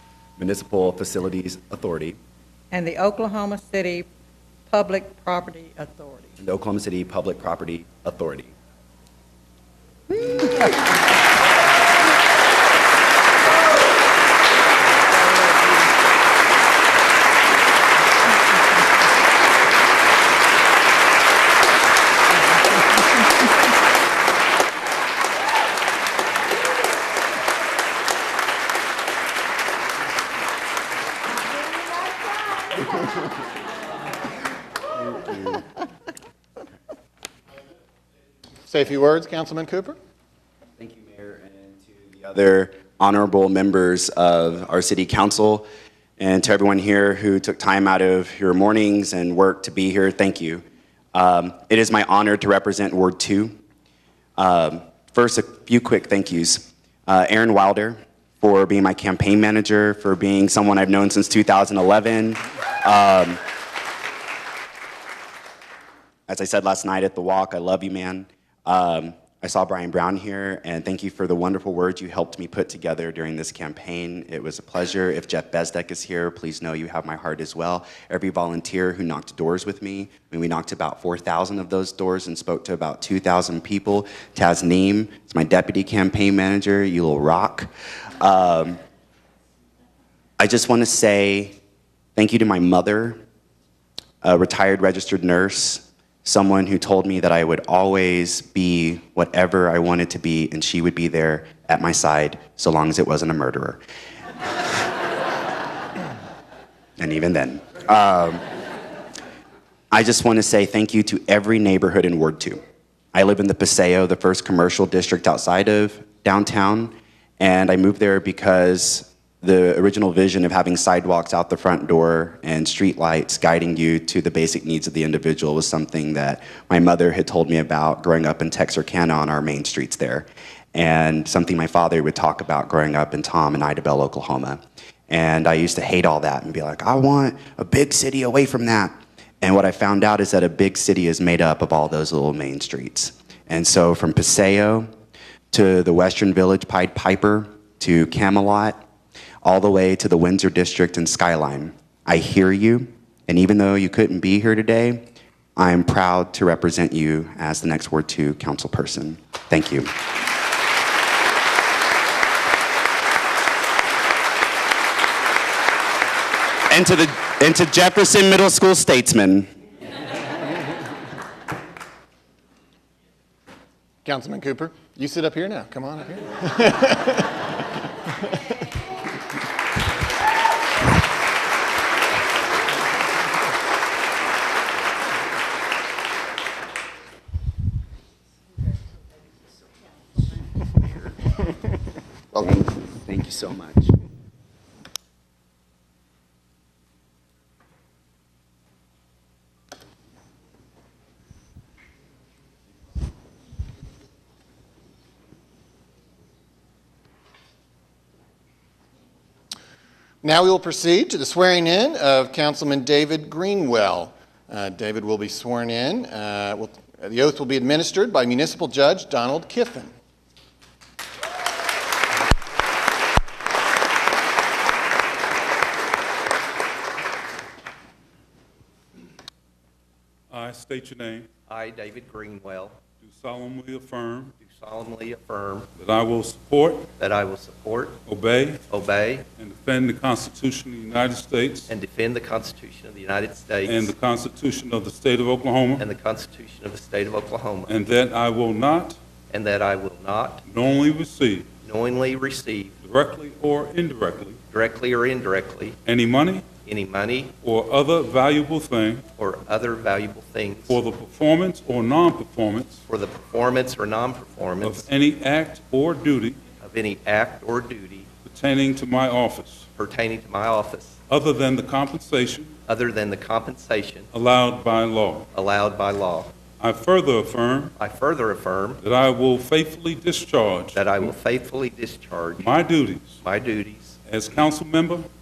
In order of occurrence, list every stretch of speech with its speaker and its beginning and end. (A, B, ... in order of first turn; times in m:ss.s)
0:00.4-0:02.2 A
0:02.7-0:04.1 B
0:04.7-0:06.4 B
0:06.4-0:08.5 A
0:15.1-0:15.9 B
0:35.1-0:35.6 A
0:38.7-0:40.0 C
0:40.8-0:45.7 A
0:46.2-0:50.6 A
0:51.1-0:53.5 A
0:54.4-1:03.4 A
1:06.3-1:28.8 A
1:30.4-1:31.6 A
1:32.2-1:33.2 A
1:34.2-1:43.8 A
1:47.0-1:48.4 A
1:49.9-1:52.6 A
1:53.1-2:24.9 A
2:25.5-2:28.8 A
2:29.4-2:39.9 A
2:46.7-2:49.5 A
2:54.0-2:57.4 C
3:10.8-3:11.0 A
3:12.3-3:14.0 A
3:30.2-3:39.9 C
3:50.3-3:51.3 D
3:51.5-3:52.8 E
3:53.0-3:54.3 D
3:54.4-3:55.7 E
3:55.8-3:56.9 D
3:57.0-3:58.0 E
3:58.1-3:58.6 D
3:58.7-3:59.3 E
3:59.4-4:01.7 D
4:01.7-4:03.9 E
4:03.6-4:05.9 D
4:05.8-4:07.8 E
4:07.7-4:09.0 D
4:09.3-4:10.4 E
4:10.5-4:11.5 D
4:11.6-4:12.8 E
4:12.8-4:14.4 D
4:14.5-4:15.8 E
4:15.9-4:16.5 D
4:16.6-4:17.4 E
4:17.4-4:19.0 D
4:19.2-4:20.8 E
4:20.7-4:22.8 D
4:22.9-4:24.9 E
4:24.6-4:26.4 D
4:26.6-4:28.1 E
4:28.2-4:29.7 D
4:29.8-4:31.0 E
4:31.1-4:32.5 D
4:32.7-4:34.1 E
4:34.1-4:35.3 D
4:35.3-4:36.3 E
4:36.6-4:37.7 D
4:37.8-4:38.8 E
4:38.8-4:40.9 D
4:40.8-4:42.5 E
4:42.4-4:43.2 D
4:43.2-4:44.0 E
4:44.1-4:45.1 D